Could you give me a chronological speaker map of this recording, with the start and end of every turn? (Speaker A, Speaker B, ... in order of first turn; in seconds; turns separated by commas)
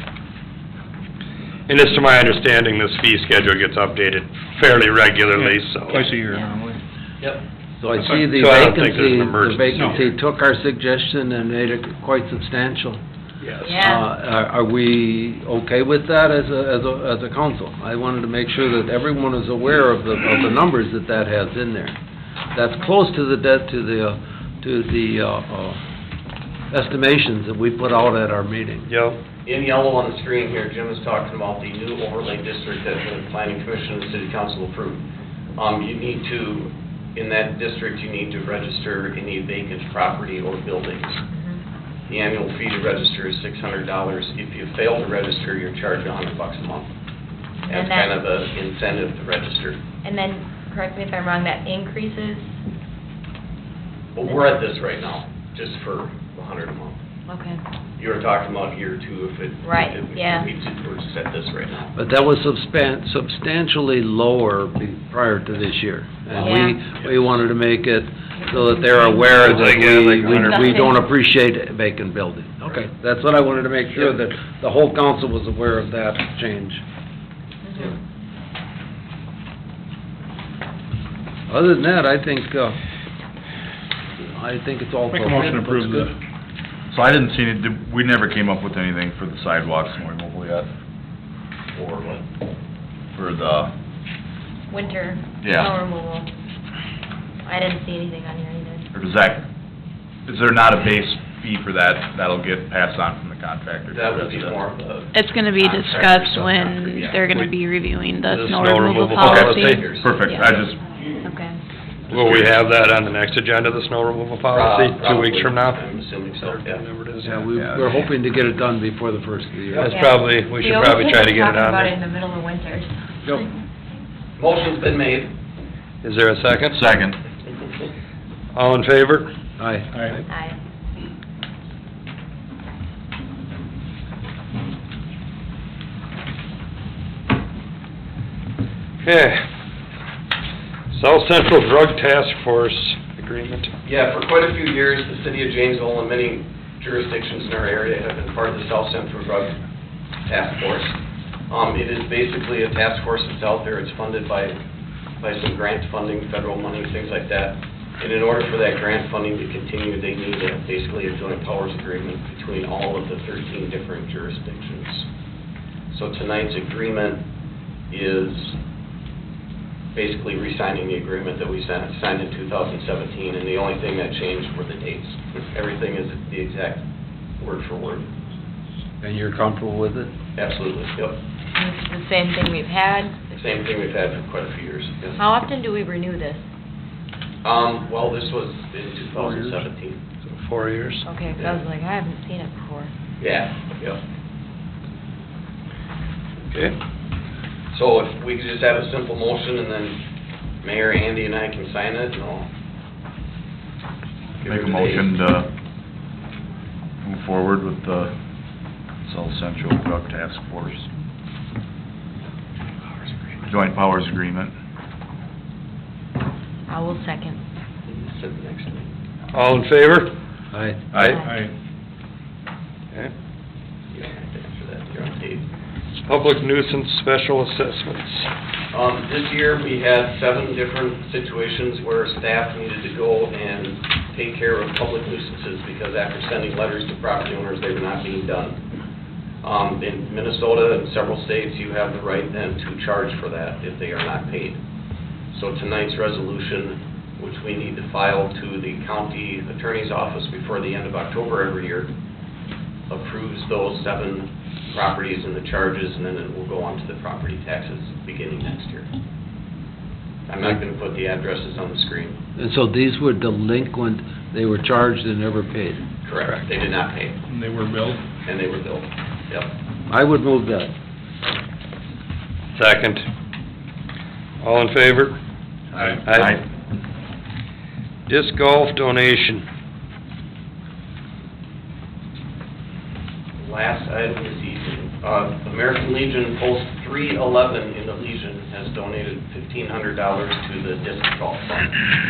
Speaker A: 1.7-6.2, Speaker B: 5.4-6.8, Speaker C: 7.8-13.0, Speaker A: 8.2-9.8, Speaker D: 13.6-14.1, Speaker C: 13.8-21.9, Speaker C: 22.5-25.8, Speaker C: 26.7-28.9, Speaker A: 28.9-29.2, Speaker E: 29.4-35.0, Speaker E: 35.6-41.2, Speaker D: 41.3-41.6, Speaker E: 42.1-46.9, Speaker D: 47.6-48.1, Speaker E: 47.7-49.9, Speaker D: 50.0-52.5, Speaker E: 54.2-57.0, Speaker D: 57.3-57.6, Speaker E: 58.0-62.0, Speaker D: 59.6-60.5, Speaker C: 62.0-76.8, Speaker D: 66.3-66.8, Speaker D: 68.4-69.4, Speaker A: 69.3-70.9, Speaker D: 70.4-71.0, Speaker D: 77.6-78.0, Speaker C: 81.5-82.8, Speaker C: 84.2-86.1, Speaker B: 85.1-86.1, Speaker F: 86.9-90.7, Speaker E: 91.8-92.2, Speaker F: 93.1-93.7, Speaker D: 94.7-96.3, Speaker F: 95.4-95.7, Speaker D: 97.5-98.9, Speaker F: 98.9-99.5, Speaker F: 100.3-104.6, Speaker E: 103.9-107.2, Speaker G: 105.1-110.4, Speaker A: 108.3-109.9, Speaker E: 109.2-110.6, Speaker F: 109.2-110.8, Speaker D: 111.2-111.6, Speaker A: 112.1-117.5, Speaker F: 112.1-112.5, Speaker E: 114.5-116.8, Speaker C: 117.2-120.0, Speaker F: 117.6-117.8, Speaker A: 119.8-122.0, Speaker D: 119.8-123.5, Speaker E: 124.4-125.3, Speaker A: 126.0-126.8, Speaker F: 126.6-127.2, Speaker A: 128.5-129.3, Speaker C: 129.6-130.2, Speaker D: 130.3-130.6, Speaker A: 139.0-139.4, Speaker A: 140.9-143.7, Speaker E: 143.8-149.6, Speaker E: 150.3-151.0, Speaker E: 151.5-154.6, Speaker E: 155.2-165.1, Speaker E: 165.9-167.2, Speaker E: 167.9-168.6, Speaker E: 169.9-176.8, Speaker E: 177.4-178.1, Speaker C: 179.0-180.1, Speaker E: 180.4-181.2, Speaker D: 181.6-183.4, Speaker E: 183.3-185.2, Speaker D: 185.2-186.4, Speaker E: 187.4-190.0, Speaker A: 190.3-191.1, Speaker D: 191.1-192.9, Speaker E: 191.3-191.6, Speaker E: 193.2-194.0, Speaker E: 197.7-200.0, Speaker E: 200.6-202.5, Speaker E: 204.4-205.1, Speaker F: 204.5-205.5, Speaker F: 207.0-208.2, Speaker F: 209.1-210.9, Speaker E: 212.9-213.5, Speaker F: 213.5-214.5, Speaker D: 216.7-217.4, Speaker E: 217.9-218.9, Speaker A: 219.3-220.1, Speaker C: 220.5-220.8, Speaker F: 220.9-221.2, Speaker B: 221.2-221.5, Speaker E: 223.9-225.4, Speaker A: 226.1-228.3, Speaker E: 228.7-238.6, Speaker E: 239.4-244.6, Speaker E: 245.3-251.9, Speaker E: 252.9-258.9, Speaker E: 260.3-262.2, Speaker C: 262.4-265.8, Speaker E: 266.0-267.2, Speaker B: 267.3-268.0, Speaker E: 268.2-269.5, Speaker C: 269.9-270.7, Speaker A: 272.6-273.1, Speaker A: 274.4-275.2, Speaker F: 275.8-276.4, Speaker A: 276.0-276.4, Speaker A: 278.1-279.4, Speaker E: 283.4-291.8